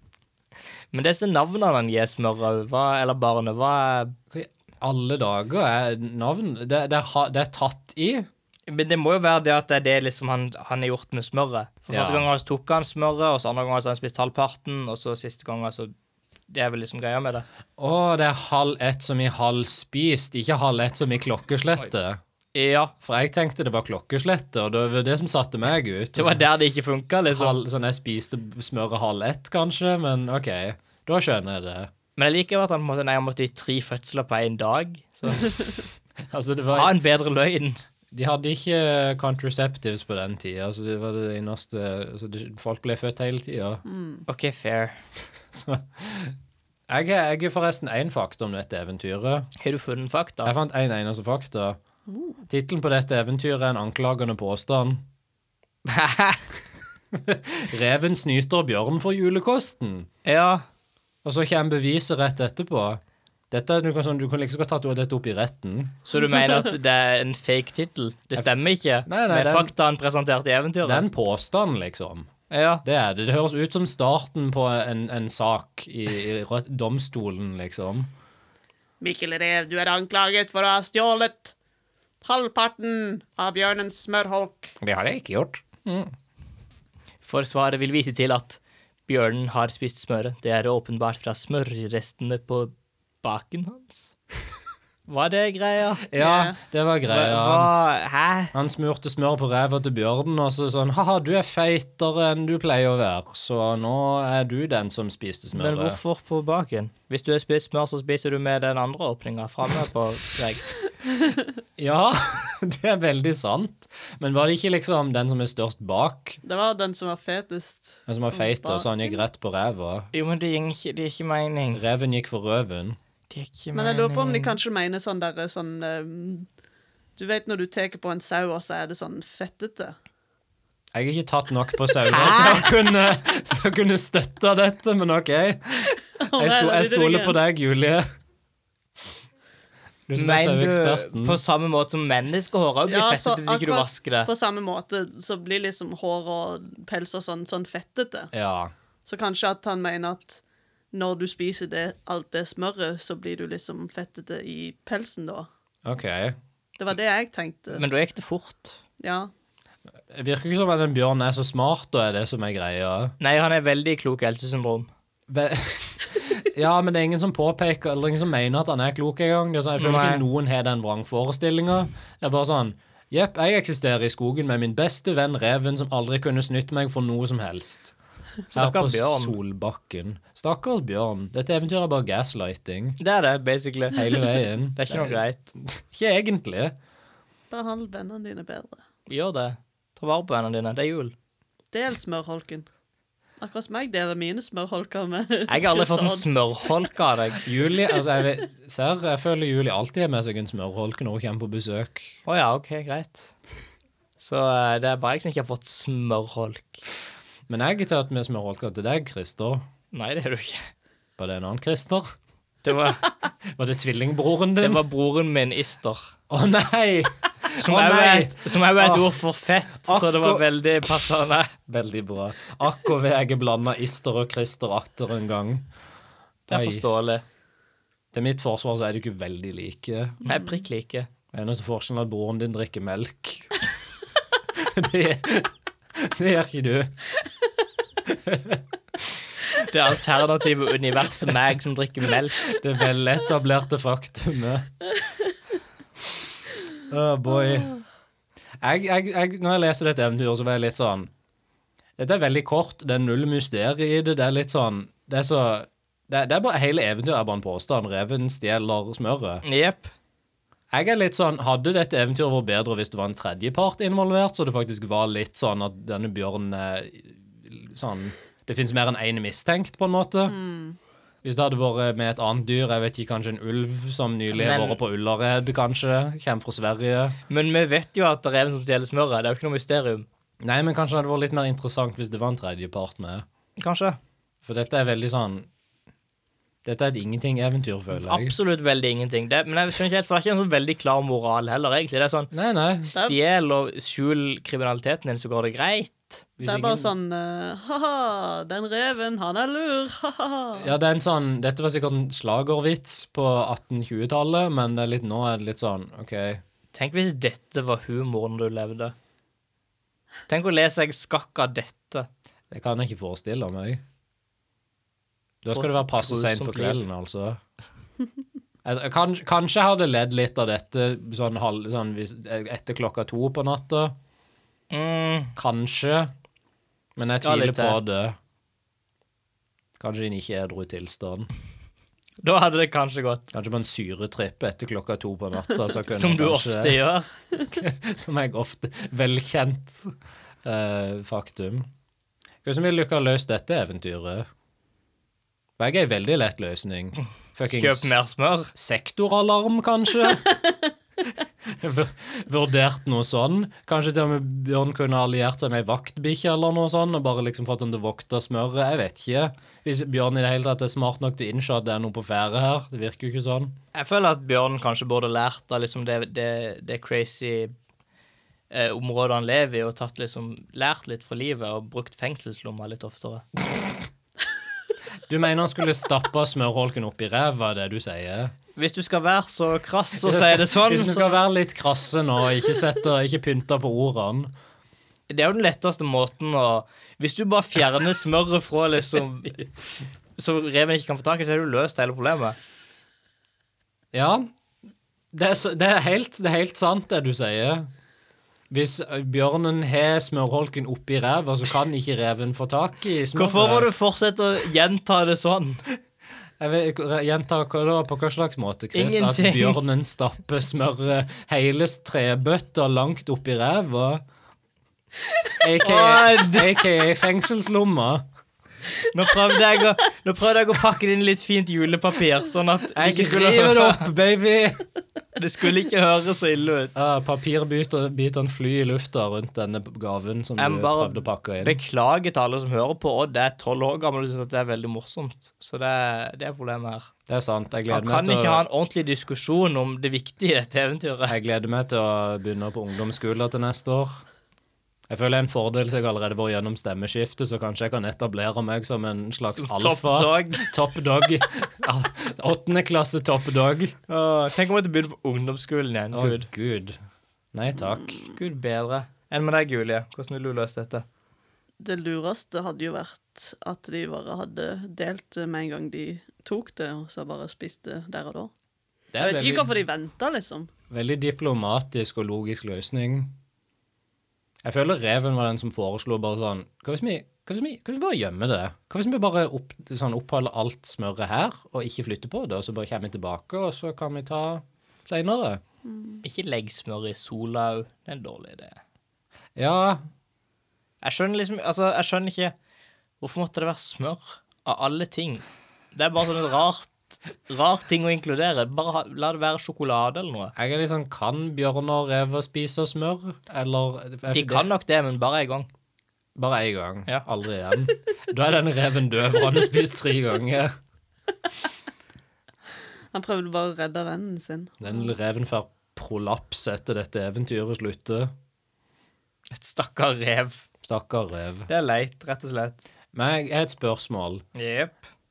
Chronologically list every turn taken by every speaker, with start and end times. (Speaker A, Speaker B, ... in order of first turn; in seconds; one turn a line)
Speaker A: 0.9-4.2
Speaker B: 4.3-8.3
Speaker A: 8.7-15.9
Speaker B: 11.9-12.2
Speaker A: 16.5-17.4
Speaker B: 17.8-22.2
Speaker A: 22.5-22.9
Speaker B: 23.0-26.4
Speaker A: 26.1-27.6
Speaker B: 27.3-31.9
Speaker A: 32.1-35.5
Speaker B: 36.3-37.0
Speaker A: 36.7-37.8
Speaker B: 38.1-43.8
Speaker C: 43.9-44.2
Speaker A: 44.3-45.0
Speaker B: 45.5-46.4
Speaker B: 46.9-49.5
Speaker A: 49.6-50.5
Speaker B: 50.4-51.8
Speaker C: 52.1-52.4
Speaker B: 52.5-55.0
Speaker A: 55.9-56.4
Speaker B: 57.1-60.1
Speaker A: 60.2-60.6
Speaker B: 61.2-63.0
Speaker B: 63.5-66.0
Speaker A: 66.0-71.0
Speaker B: 69.0-69.7
Speaker B: 70.8-72.3
Speaker A: 72.5-72.8
Speaker B: 72.8-78.1
Speaker C: 79.0-81.5
Speaker C: 82.2-84.7
Speaker B: 84.8-86.1
Speaker A: 87.2-94.1
Speaker A: 95.1-96.0
Speaker B: 96.0-97.7
Speaker C: 96.2-96.5
Speaker A: 97.1-98.5
Speaker B: 98.5-106.0
Speaker A: 105.5-110.7
Speaker B: 111.8-116.4
Speaker C: 116.4-119.2
Speaker B: 118.1-120.1
Speaker A: 120.1-121.8
Speaker B: 121.7-123.0
Speaker A: 123.3-124.5
Speaker C: 123.7-126.5
Speaker C: 127.2-129.9
Speaker B: 130.9-138.0
Speaker A: 132.1-132.7
Speaker C: 136.2-137.4
Speaker B: 140.1-141.4
Speaker A: 140.2-144.3
Speaker C: 142.9-148.3
Speaker B: 148.3-148.7
Speaker C: 149.1-150.4
Speaker C: 150.9-155.5
Speaker B: 155.8-156.4
Speaker C: 156.8-157.8
Speaker A: 157.7-158.8
Speaker C: 159.0-159.3
Speaker B: 160.1-163.1
Speaker A: 163.2-164.9
Speaker B: 165.3-177.9
Speaker A: 169.8-170.2
Speaker A: 178.5-179.3
Speaker B: 178.5-183.0
Speaker A: 183.0-184.1
Speaker B: 183.9-186.7
Speaker A: 184.8-185.5
Speaker C: 187.5-188.8
Speaker A: 189.1-191.1
Speaker C: 191.7-192.7
Speaker C: 193.4-196.2
Speaker A: 195.5-197.4
Speaker B: 197.4-202.2
Speaker A: 202.2-203.3
Speaker A: 204.2-206.8
Speaker B: 207.5-209.7
Speaker A: 209.9-210.7
Speaker B: 211.2-212.1
Speaker A: 212.6-213.1
Speaker B: 213.5-214.8
Speaker A: 214.6-216.1
Speaker B: 216.3-219.2
Speaker A: 217.6-221.5
Speaker B: 219.8-220.4
Speaker B: 221.7-225.7
Speaker B: 226.5-226.8
Speaker A: 226.5-227.2
Speaker B: 228.1-230.2
Speaker A: 230.2-231.1
Speaker B: 231.3-233.6
Speaker B: 234.5-236.9
Speaker B: 238.1-238.6
Speaker A: 239.6-242.5
Speaker B: 242.4-244.7
Speaker B: 246.8-247.8
Speaker B: 248.6-251.1
Speaker B: 252.0-259.4
Speaker A: 259.4-259.9
Speaker B: 260.7-270.4
Speaker C: 270.3-270.8
Speaker B: 271.2-277.2
Speaker A: 274.3-274.8
Speaker A: 277.3-280.1
Speaker B: 280.4-283.2
Speaker A: 283.6-284.0
Speaker B: 284.4-285.5
Speaker B: 286.6-288.3
Speaker A: 287.9-292.3
Speaker B: 292.3-292.9
Speaker A: 292.9-296.2
Speaker B: 296.4-296.9
Speaker C: 296.4-300.7
Speaker B: 300.6-306.4
Speaker A: 306.7-308.9
Speaker A: 310.3-312.1
Speaker B: 312.5-313.8
Speaker B: 315.4-317.4
Speaker A: 315.5-316.8
Speaker B: 318.6-323.9
Speaker A: 324.7-325.3
Speaker B: 325.4-326.1
Speaker B: 327.0-328.2
Speaker A: 327.1-327.8
Speaker B: 329.8-331.3
Speaker A: 332.2-333.3
Speaker B: 333.3-336.8
Speaker A: 335.9-337.1
Speaker B: 337.5-339.9
Speaker B: 340.4-341.7
Speaker B: 342.4-344.3
Speaker B: 345.6-347.9
Speaker A: 347.5-348.5
Speaker B: 348.5-350.3
Speaker B: 351.4-363.6
Speaker A: 363.7-367.5
Speaker A: 368.5-373.2
Speaker B: 375.1-378.3
Speaker A: 378.6-381.1
Speaker B: 380.0-384.3
Speaker A: 385.1-389.4
Speaker A: 390.2-392.4
Speaker B: 393.9-394.3
Speaker B: 395.1-397.7
Speaker B: 398.5-403.7
Speaker A: 403.1-405.6
Speaker B: 406.4-414.0
Speaker A: 408.7-409.6
Speaker B: 415.4-418.0
Speaker A: 415.6-416.6
Speaker A: 418.9-423.9
Speaker B: 422.7-424.6
Speaker A: 425.2-426.7
Speaker B: 426.7-431.6
Speaker A: 430.4-436.9
Speaker B: 437.1-438.4
Speaker A: 437.7-441.1
Speaker B: 441.1-444.0
Speaker B: 444.9-453.8
Speaker A: 449.3-450.5
Speaker A: 453.9-456.3
Speaker B: 455.9-456.8
Speaker B: 457.3-458.0
Speaker A: 458.1-460.8
Speaker C: 461.6-468.3
Speaker B: 468.9-469.5
Speaker C: 469.0-470.5
Speaker B: 470.7-473.1
Speaker B: 474.4-485.4
Speaker C: 485.6-486.0
Speaker A: 486.0-488.6
Speaker B: 489.4-489.9
Speaker A: 490.8-492.3
Speaker A: 493.0-500.3
Speaker B: 500.3-504.5
Speaker A: 504.1-505.5
Speaker B: 506.1-510.5
Speaker C: 512.9-514.7
Speaker B: 514.6-518.1
Speaker A: 519.3-520.4
Speaker B: 520.6-521.5
Speaker A: 521.5-522.6
Speaker B: 522.9-524.2
Speaker A: 524.3-524.8